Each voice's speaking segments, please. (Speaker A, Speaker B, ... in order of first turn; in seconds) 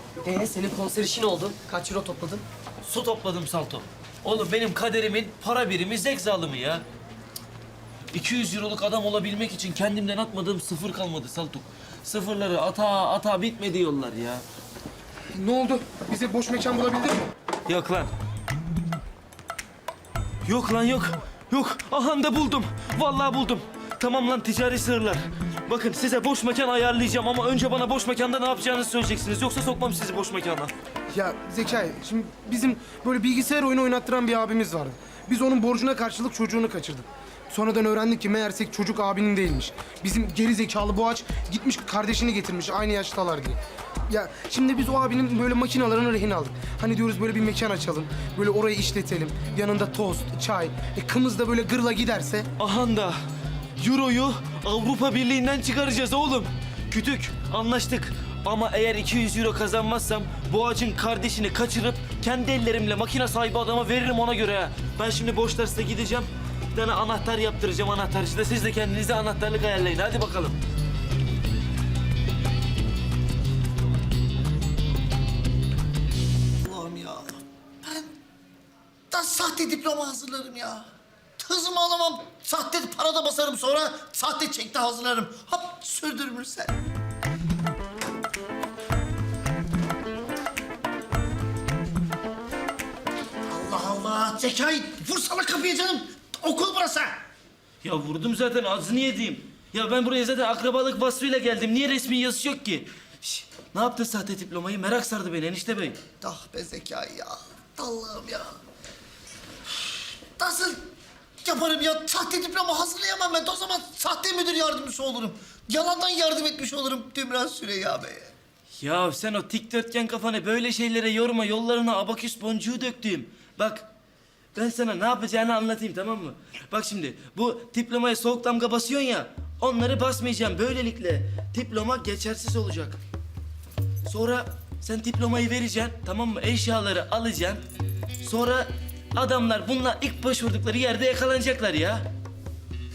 Speaker A: 0.2-2.4
Speaker B: 2.8-6.8, 8.1-14.4, 17.7-18.1, 20.4-30.7, 52.6-53.2, 53.8-70.6, 97.8-106.0, 118.8-123.9, 124.5-133.0, 134.1-137.6, 138.2-142.1
Speaker C: 15.3-17.3, 31.1-52.5
Speaker D: 76.6-78.1, 79.1-80.9, 81.4-86.8, 93.5-97.2, 106.2-108.6, 110.4-110.9, 111.4-118.3